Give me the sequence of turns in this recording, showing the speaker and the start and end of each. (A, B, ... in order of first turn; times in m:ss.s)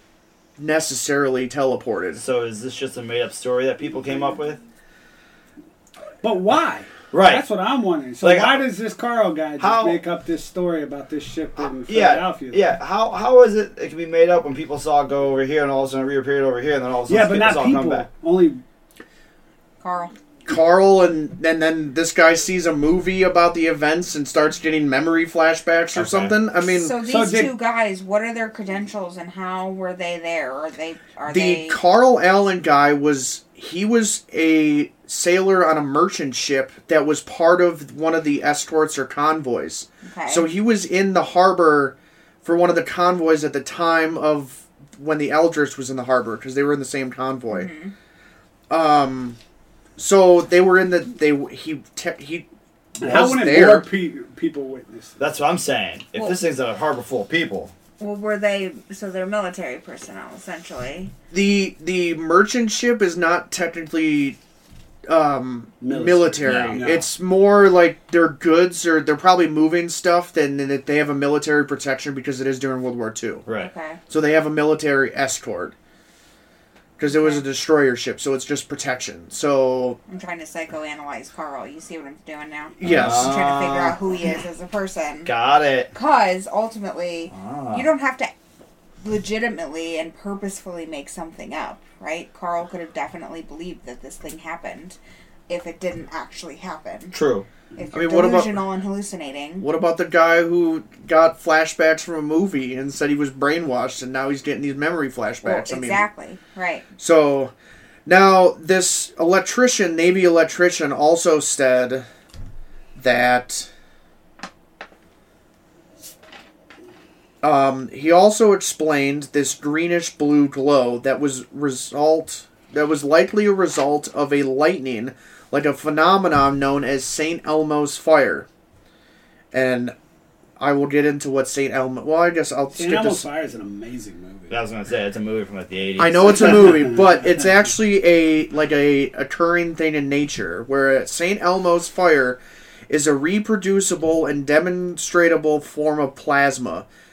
0:00.6-0:02.2 A
0:02.2-0:04.6 B
0:06.2-0:12.7 C
0:07.1-0:07.4 B
0:08.2-0:08.6 B
0:09.6-0:10.0 B
0:11.9-0:18.0 B
0:17.1-0:18.6 C
0:19.8-0:20.1 D
0:20.4-0:27.0 A
0:25.9-0:26.3 B
0:26.7-0:31.8 D
0:27.0-0:27.5 C
0:31.3-0:47.7 A
0:40.0-0:40.5 D
0:47.5-0:47.9 D
0:48.7-0:49.4 A
0:50.0-0:53.9 A
0:53.0-0:55.2 C
0:55.2-0:57.7 B
0:58.0-1:01.1 D
1:01.3-1:04.4 A
1:05.1-1:13.4 A
1:05.8-1:07.1 C
1:06.4-1:06.9 B
1:13.4-1:13.7 B
1:13.6-1:14.0 D
1:14.1-1:15.7 A
1:17.0-1:20.0 A
1:17.1-1:17.4 D
1:20.1-1:25.3 D
1:22.8-1:23.4 A
1:22.8-1:24.0 B
1:25.2-1:25.9 B
1:25.9-1:28.3 D
1:27.3-1:27.9 B
1:29.0-1:37.2 D
1:37.1-1:37.4 B
1:37.8-1:39.7 D
1:37.9-1:38.6 A
1:39.6-1:46.0 A
1:45.4-1:46.9 D
1:47.0-1:47.5 A
1:48.0-1:52.0 A
1:53.0-1:53.7 A
1:57.4-2:08.5 A
2:09.5-2:09.9 A
2:10.6-2:13.2 A
2:12.7-2:14.6 C
2:14.5-2:16.6 B
2:16.0-2:26.8 A